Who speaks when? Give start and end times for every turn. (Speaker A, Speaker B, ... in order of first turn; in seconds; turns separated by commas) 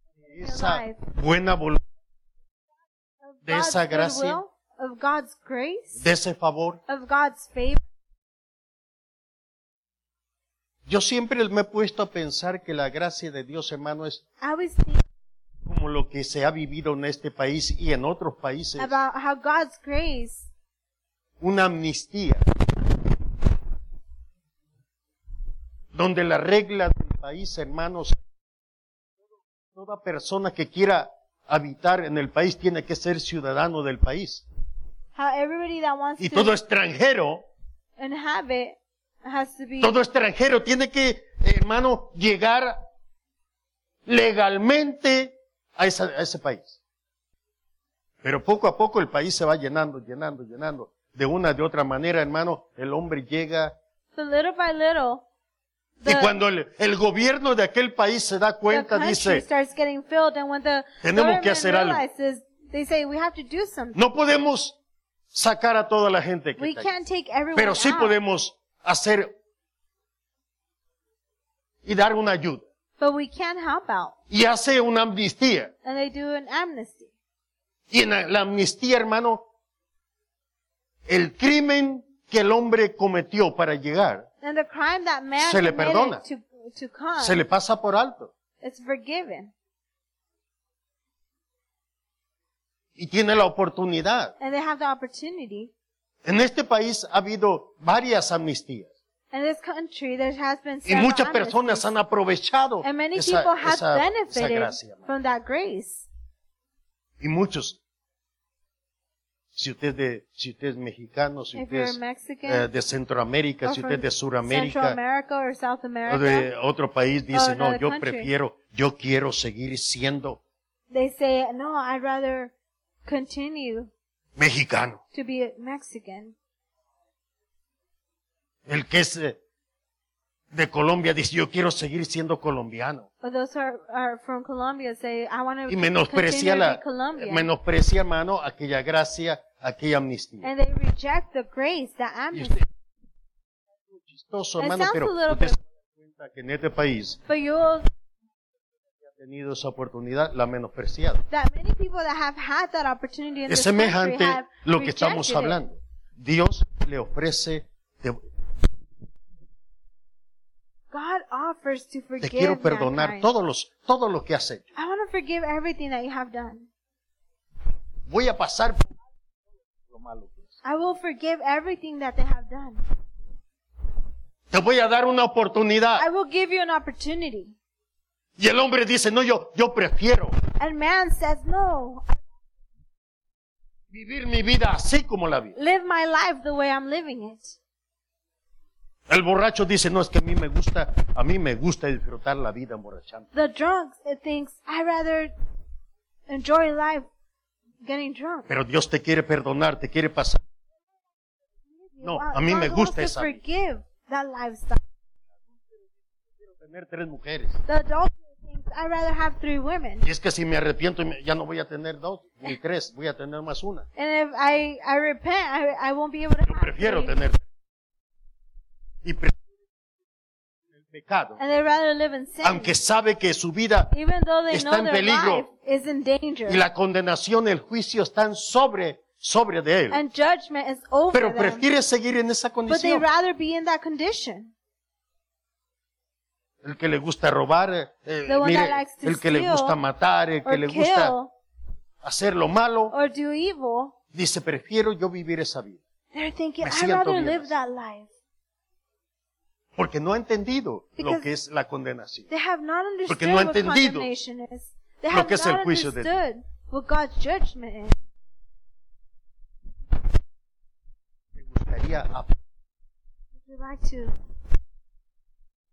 Speaker A: 0.3-1.0, Speaker B: 0.3-1.8, Speaker A: 3.2-6.0, Speaker B: 3.5-4.4, Speaker B: 6.0-6.8, Speaker A: 6.9-7.8, Speaker B: 10.9-14.2, Speaker A: 14.4-15.0, Speaker B: 15.7-19.0, Speaker A: 18.8-20.5, Speaker B: 21.4-22.4, Speaker B: 25.9-28.2, Speaker B: 29.8-34.5, Speaker A: 35.1-36.5, Speaker B: 36.2-37.5, Speaker A: 38.0-40.0, Speaker B: 39.8-42.8, Speaker B: 44.1-46.8, Speaker B: 48.2-53.8, Speaker A: 54.1-55.2, Speaker A: 56.0-56.4, Speaker B: 56.0-59.5, Speaker A: 58.7-64.0, Speaker B: 61.0-62.0, Speaker B: 64.0-64.8, Speaker B: 65.3-66.9, Speaker A: 66.6-68.2, Speaker B: 67.5-69.3, Speaker B: 71.8-72.7, Speaker A: 73.0-74.2, Speaker B: 74.3-75.7, Speaker A: 75.8-77.1, Speaker B: 77.9-79.5, Speaker B: 81.1-84.3, Speaker A: 84.4-87.4, Speaker B: 85.4-86.2, Speaker B: 87.2-88.3, Speaker A: 88.6-89.5, Speaker B: 93.0-94.3, Speaker A: 94.4-95.7, Speaker B: 96.2-98.9, Speaker A: 99.3-101.9, Speaker B: 100.9-105.1, Speaker A: 102.8-106.1, Speaker B: 107.2-107.8, Speaker B: 109.5-115.0, Speaker A: 111.5-112.7, Speaker A: 113.6-116.5, Speaker B: 116.1-120.4, Speaker A: 117.3-118.3, Speaker A: 120.9-122.5, Speaker A: 123.0-123.9, Speaker B: 124.4-125.0, Speaker A: 125.1-126.3, Speaker B: 128.7-129.4, Speaker B: 130.5-133.1, Speaker A: 133.2-137.5, Speaker B: 135.7-140.5, Speaker A: 140.4-142.6, Speaker B: 142.3-142.7, Speaker B: 143.9-147.2, Speaker A: 144.6-145.6, Speaker A: 147.3-147.9, Speaker B: 149.2-151.2, Speaker A: 151.3-155.6, Speaker B: 153.5-158.2, Speaker A: 160.9-163.3, Speaker B: 162.2-164.7, Speaker A: 164.8-166.7, Speaker B: 168.1-168.9, Speaker B: 169.9-170.5, Speaker A: 170.6-172.8, Speaker B: 174.5-176.1, Speaker A: 176.0-177.6, Speaker B: 178.4-180.4, Speaker A: 180.6-182.2, Speaker B: 183.9-185.6, Speaker A: 185.6-187.6, Speaker B: 189.1-193.3, Speaker A: 193.3-195.3, Speaker A: 196.3-197.1, Speaker A: 197.8-198.5, Speaker B: 198.5-200.4, Speaker A: 201.7-204.8, Speaker B: 202.0-203.4, Speaker B: 206.4-207.6, Speaker A: 207.7-210.1, Speaker B: 210.0-213.9, Speaker A: 214.0-217.2, Speaker B: 216.5-217.4, Speaker B: 219.0-219.4, Speaker B: 220.9-221.4, Speaker A: 221.4-222.8, Speaker B: 222.4-223.9, Speaker A: 223.9-226.6, Speaker B: 224.5-225.5, Speaker B: 226.5-230.0, Speaker A: 229.9-231.7, Speaker B: 231.1-233.1, Speaker A: 232.7-234.5, Speaker B: 236.6-241.2, Speaker A: 238.3-239.8, Speaker A: 240.4-241.3, Speaker B: 242.0-242.9, Speaker A: 242.9-243.9, Speaker B: 244.1-245.8, Speaker A: 246.1-248.1, Speaker B: 246.6-247.5, Speaker B: 249.8-252.3, Speaker A: 251.0-251.3, Speaker A: 252.3-257.9, Speaker B: 253.1-254.1, Speaker B: 255.1-256.1, Speaker B: 261.4-262.4, Speaker A: 263.4-264.1